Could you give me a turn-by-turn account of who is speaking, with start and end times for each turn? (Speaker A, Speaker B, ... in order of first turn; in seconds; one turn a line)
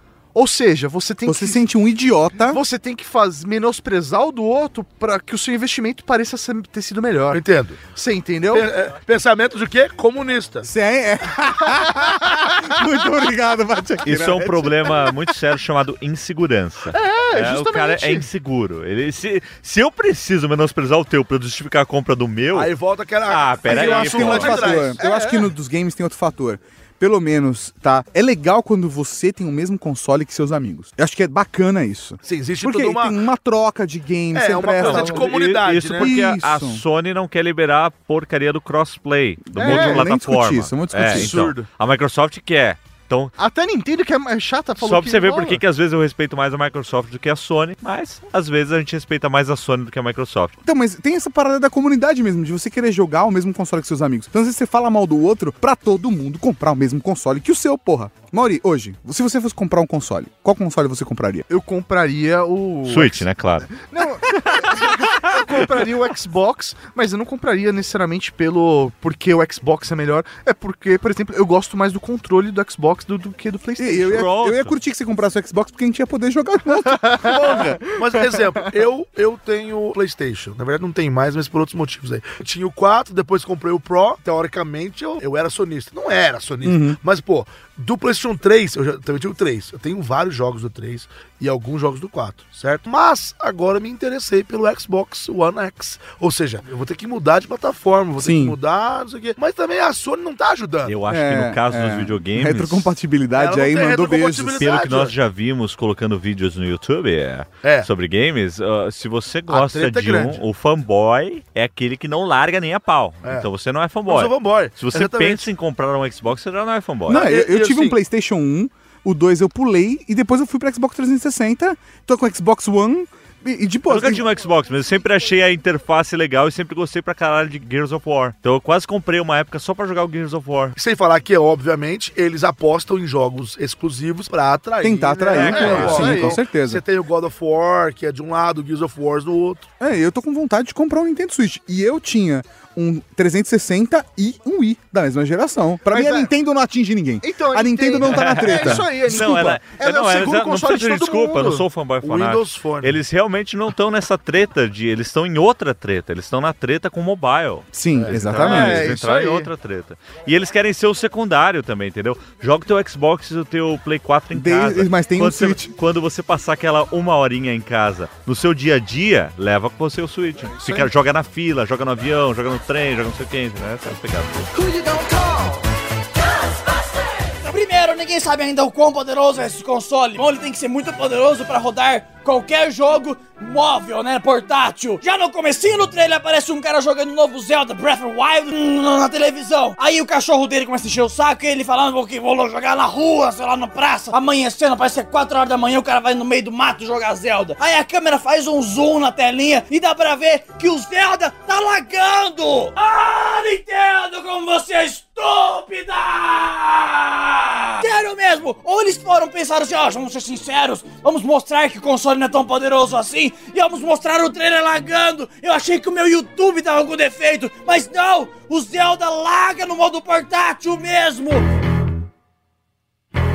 Speaker A: 0.3-1.6
Speaker B: 1.3-2.6
Speaker A: 2.5-8.7
Speaker C: 7.3-7.8
Speaker C: 8.5-10.7
Speaker B: 10.6-15.0
Speaker D: 14.1-22.7
Speaker A: 16.9-18.3
Speaker C: 22.5-25.0
Speaker D: 23.3-24.9
Speaker B: 23.7-35.3
Speaker A: 25.0-25.4
Speaker C: 32.2-33.2
Speaker C: 34.3-36.1
Speaker D: 34.8-43.4
Speaker B: 36.0-36.8
Speaker B: 39.5-41.5
Speaker A: 39.6-40.1
Speaker A: 41.1-41.6
Speaker A: 43.4-45.6
Speaker D: 44.8-50.6
Speaker B: 50.6-61.5
Speaker A: 61.5-74.3
Speaker D: 62.9-63.7
Speaker B: 73.8-77.5
Speaker D: 74.0-74.8
Speaker A: 77.0-77.6
Speaker D: 77.3-77.8
Speaker C: 77.5-101.0
Speaker B: 86.6-87.0
Speaker B: 98.2-98.6
Speaker D: 100.8-102.9
Speaker B: 101.1-104.6
Speaker C: 103.3-105.2
Speaker D: 104.6-117.2
Speaker C: 107.6-107.9
Speaker C: 109.5-110.4
Speaker C: 114.1-115.5
Speaker C: 117.1-118.0
Speaker B: 117.1-124.3
Speaker D: 123.9-130.8
Speaker C: 130.8-139.7
Speaker B: 134.8-136.8
Speaker D: 135.3-136.1
Speaker A: 135.5-136.4
Speaker B: 139.8-149.0
Speaker A: 145.9-146.3
Speaker A: 147.2-151.7
Speaker D: 148.0-174.5
Speaker C: 152.0-153.0
Speaker B: 157.7-159.0
Speaker A: 158.3-159.5
Speaker B: 164.3-165.7
Speaker A: 174.6-175.6
Speaker E: 176.4-221.5